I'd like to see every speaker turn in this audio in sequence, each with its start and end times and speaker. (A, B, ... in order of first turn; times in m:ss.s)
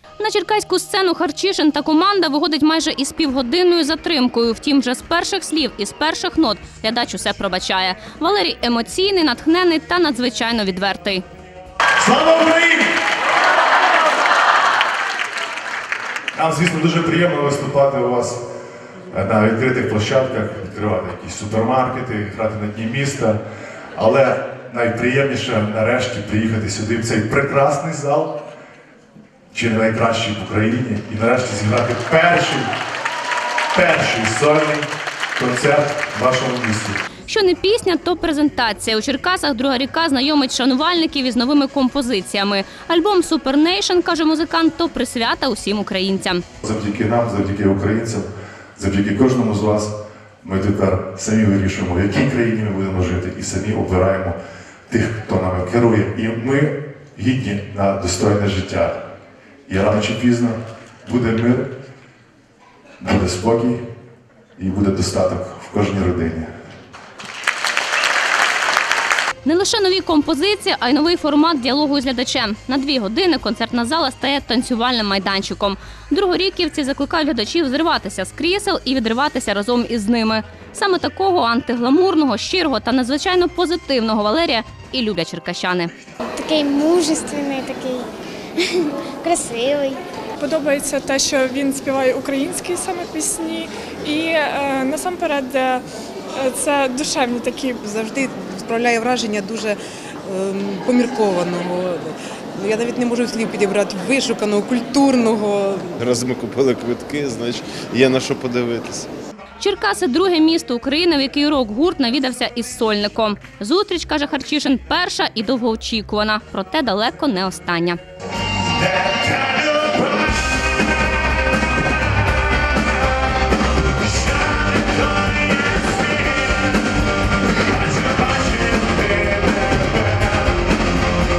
0:00.2-0:11.2 A
0:12.0-0:12.9 B
0:16.3-0:18.4 B
0:19.1-0:23.4 B
0:23.9-0:28.4 B
0:29.5-0:32.7 B
0:33.7-0:37.0 B
0:37.3-0:46.4 A
0:46.6-0:54.4 B
0:54.9-0:59.0 B
0:59.7-1:01.7 B
1:03.0-1:03.8 B
1:04.6-1:06.5 B
1:09.4-1:25.9 A
1:26.2-1:30.0 C
1:30.4-1:35.8 D
1:36.4-1:37.8 D
1:37.8-1:45.9 E
1:46.0-1:49.1 F
1:49.6-1:58.0 A
1:58.8-2:00.1 B
2:04.5-2:06.3 B
2:07.8-2:09.8 B